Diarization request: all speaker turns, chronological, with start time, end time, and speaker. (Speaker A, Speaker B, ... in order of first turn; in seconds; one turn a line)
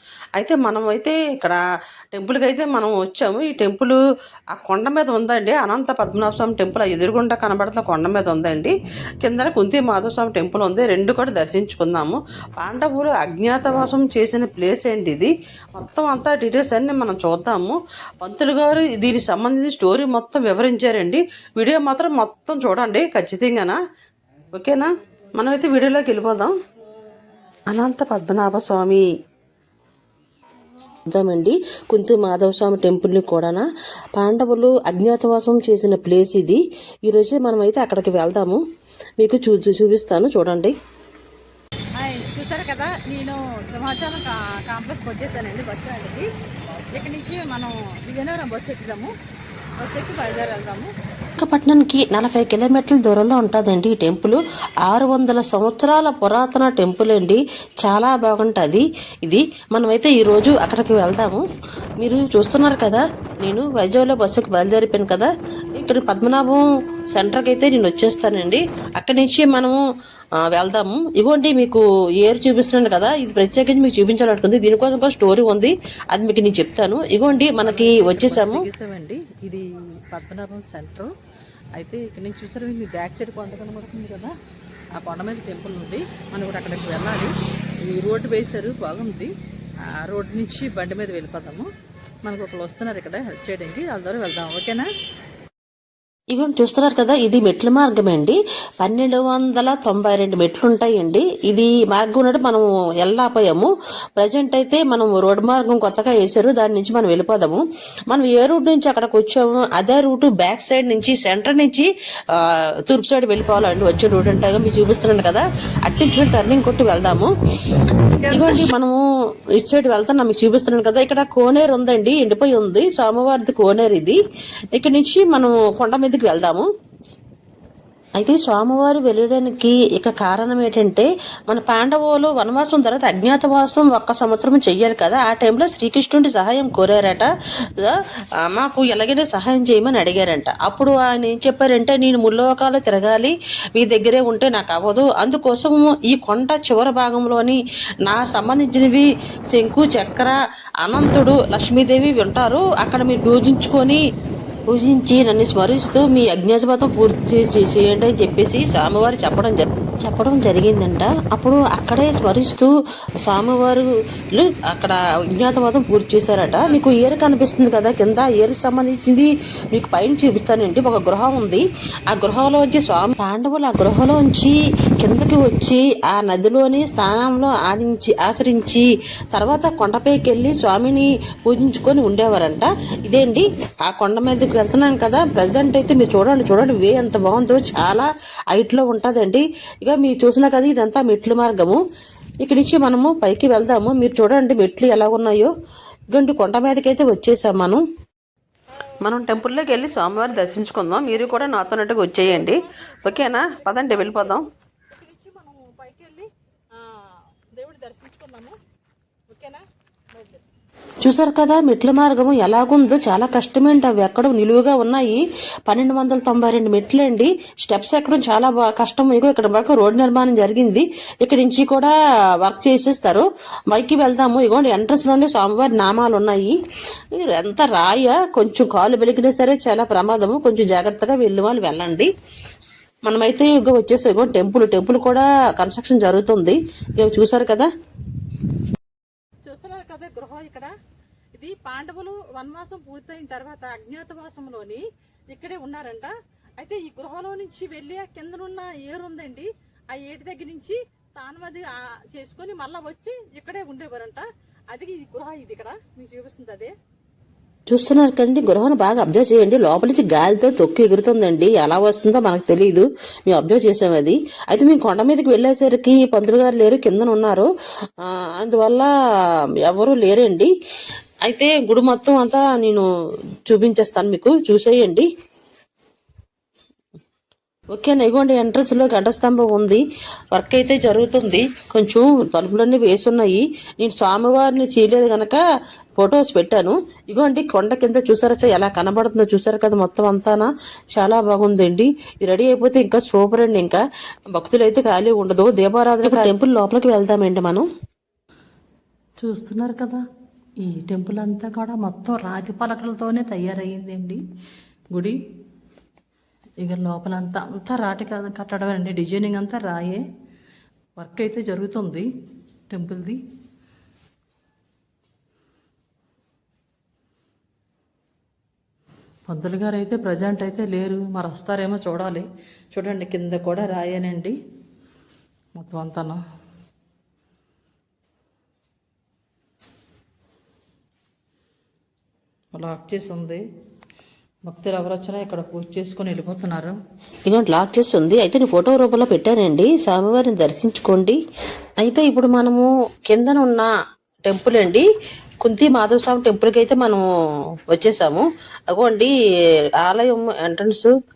Speaker A: 0.4-1.6
Speaker A: 2.1-4.0
Speaker A: 4.5-23.8
Speaker A: 24.5-26.6
Speaker A: 27.7-29.0
Speaker A: 31.1-38.6
Speaker A: 39.2-40.7
Speaker B: 42.0-46.3
Speaker B: 46.9-49.1
Speaker B: 49.8-50.9
Speaker A: 51.4-61.4
Speaker A: 62.0-69.8
Speaker A: 70.4-78.6
Speaker B: 77.6-81.1
Speaker B: 81.8-84.3
Speaker B: 85.0-87.3
Speaker B: 87.9-89.3
Speaker B: 90.0-91.7
Speaker B: 92.2-94.9
Speaker A: 96.3-111.9
Speaker A: 112.9-117.3
Speaker B: 118.2-118.7
Speaker A: 118.3-119.0
Speaker A: 119.6-124.2
Speaker A: 124.7-126.7
Speaker A: 128.2-137.3
Speaker A: 137.8-154.0
Speaker A: 154.7-162.7
Speaker A: 163.3-191.8
Speaker B: 166.6-166.9
Speaker A: 192.4-195.5
Speaker A: 196.1-197.8
Speaker B: 198.7-200.3
Speaker A: 199.0-204.4
Speaker B: 201.1-207.0
Speaker B: 207.5-208.6
Speaker B: 209.3-209.6
Speaker B: 210.1-210.4
Speaker A: 211.0-226.6
Speaker A: 227.2-232.1
Speaker A: 233.1-237.7
Speaker B: 239.5-240.7
Speaker B: 241.3-256.7
Speaker A: 257.7-267.5
Speaker A: 268.0-268.9
Speaker A: 269.7-270.5
Speaker A: 271.3-272.9
Speaker A: 273.5-275.1
Speaker A: 277.7-279.8
Speaker A: 280.3-285.4
Speaker A: 286.0-293.8
Speaker A: 294.3-297.7
Speaker B: 299.2-300.0
Speaker B: 300.6-304.2
Speaker B: 306.6-310.0
Speaker B: 311.0-312.1
Speaker B: 312.7-313.2
Speaker B: 319.3-324.4
Speaker B: 325.6-326.2
Speaker B: 332.6-333.4
Speaker B: 334.5-336.8
Speaker A: 337.3-341.2
Speaker A: 341.8-343.7
Speaker A: 344.2-344.9
Speaker A: 345.4-347.1
Speaker A: 347.7-349.1
Speaker A: 349.8-350.9